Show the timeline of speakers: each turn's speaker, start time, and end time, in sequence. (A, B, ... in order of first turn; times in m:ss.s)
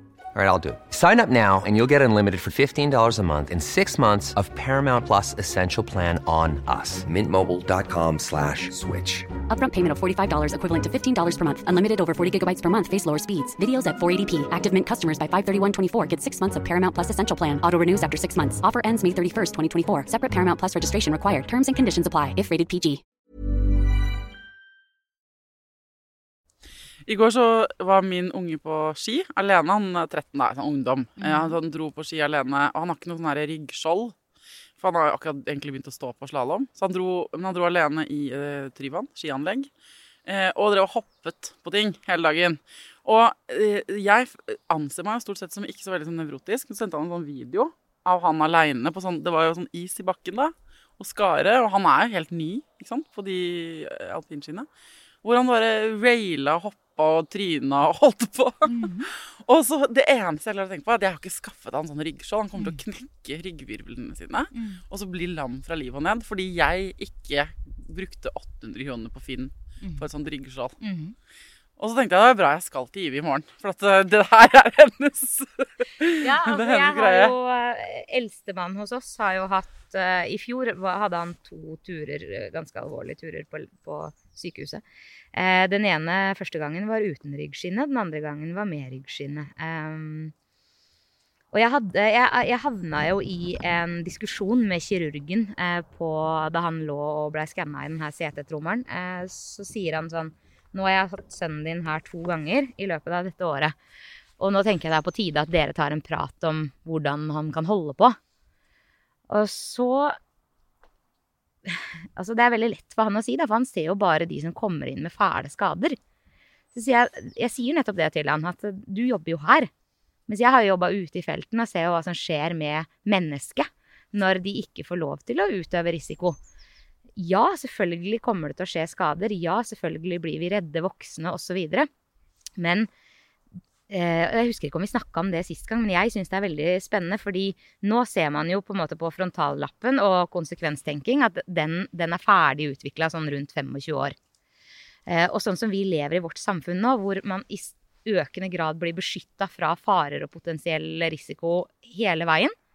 0:00.3-0:09.3 A
0:09.5-0:23.0 B
0:27.0-0:34.1 C
0:31.2-0:31.6 D
0:34.8-0:39.7 C
0:40.2-0:54.7 C
0:55.2-1:10.8 C
0:58.7-0:59.1 D
1:04.5-1:04.8 D
1:10.8-1:11.2 D
1:11.8-1:17.3 C
1:16.2-1:24.8 D
1:25.3-1:30.3 D
1:31.5-1:43.7 D
1:44.4-1:48.2 D
1:49.3-1:50.2 D
1:51.6-1:56.0 D
1:56.7-1:59.7 D
2:00.3-2:06.4 D
2:07.2-2:11.9 D
2:12.6-2:12.9 D
2:13.9-2:24.1 D
2:25.1-2:32.5 D